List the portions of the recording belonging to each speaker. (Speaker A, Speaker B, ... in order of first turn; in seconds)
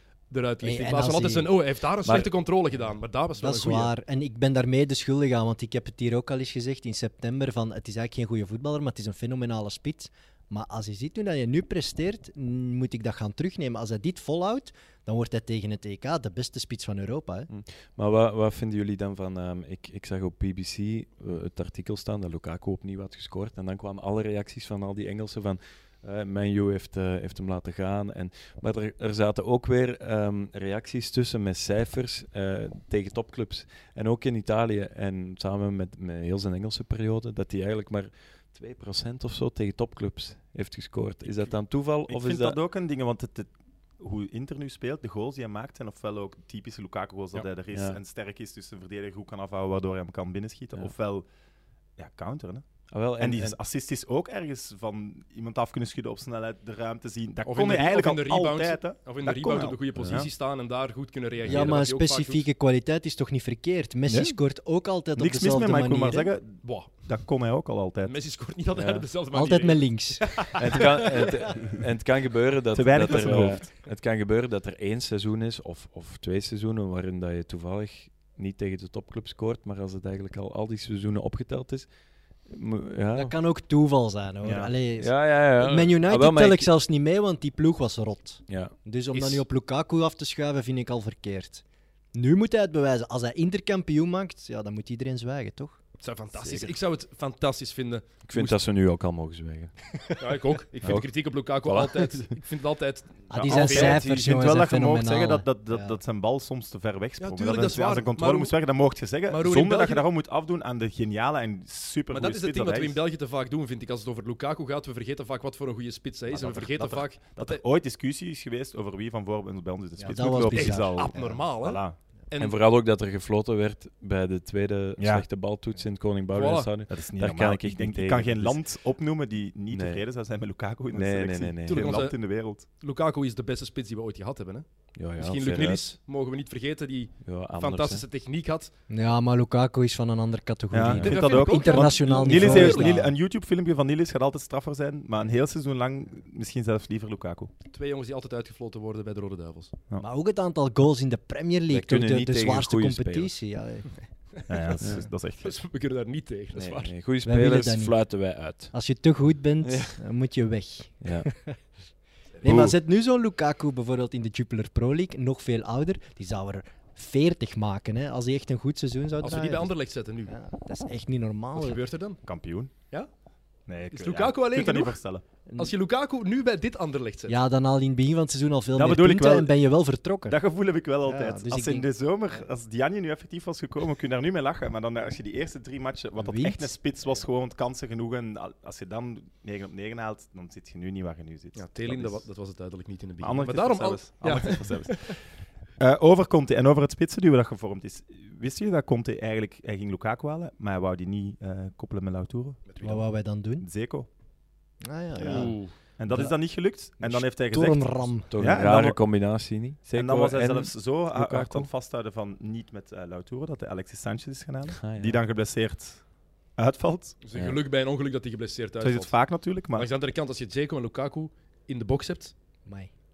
Speaker A: 0.3-3.9, 57.5-62.5, 66.6-66.9, 68.0-71.3, 89.1-89.4, 96.0-98.6, 100.2-104.0, 107.2-108.6, 109.3-110.0, 112.1-117.6, 120.5-122.6, 126.3-126.7, 131.7-138.7, 141.0-143.0, 147.7-149.7, 154.4-156.9, 169.2-170.3, 171.6-172.2, 173.9-175.0, 175.6-177.4, 191.6-195.1, 202.7-203.0, 205.2-205.7, 217.2-219.2, 219.8-222.3
Speaker B: 0.6-1.6, 3.4-17.5, 61.5-66.3, 69.3-70.6, 71.2-71.5, 83.2-95.8, 96.3-96.7, 103.3-106.0, 120.0-121.4, 138.9-143.1, 150.0-153.9, 157.2-158.0, 158.7-161.6, 162.4-169.7, 170.3-171.8, 177.3-180.4, 181.1-181.9, 186.2-186.7, 202.8-203.7, 204.8-205.6, 206.1-206.4, 207.0-208.3, 222.7-222.9
Speaker C: 2.1-2.3, 17.5-42.6, 47.7-48.0, 52.9-53.6, 60.0-60.2, 68.7-69.1, 70.5-81.9, 82.5-83.4, 85.0-86.7, 88.5-88.8, 98.3-99.7, 100.8-102.3, 122.4-128.6, 129.7-130.0, 130.9-132.1, 135.0-135.8, 137.2-138.1, 140.8-141.1, 151.7-153.3, 156.5-158.7, 159.6-160.0, 161.0-161.3, 162.4-162.7, 208.3-211.7, 214.8-215.2, 217.3-217.6
Speaker D: 42.1-51.3, 52.0-52.7, 53.2-60.3, 64.1-64.4, 65.2-68.2, 72.7-73.7, 84.4-84.7, 103.3-113.0, 116.3-122.0, 125.0-125.3, 126.9-132.6, 140.7-147.5, 154.5-155.6, 172.2-172.7, 173.7-175.2, 178.8-179.5, 180.3-192.2, 193.2-195.2, 195.8-202.7, 203.6-204.1, 205.2-209.0, 209.9-216.0, 216.6-217.2, 218.8-219.9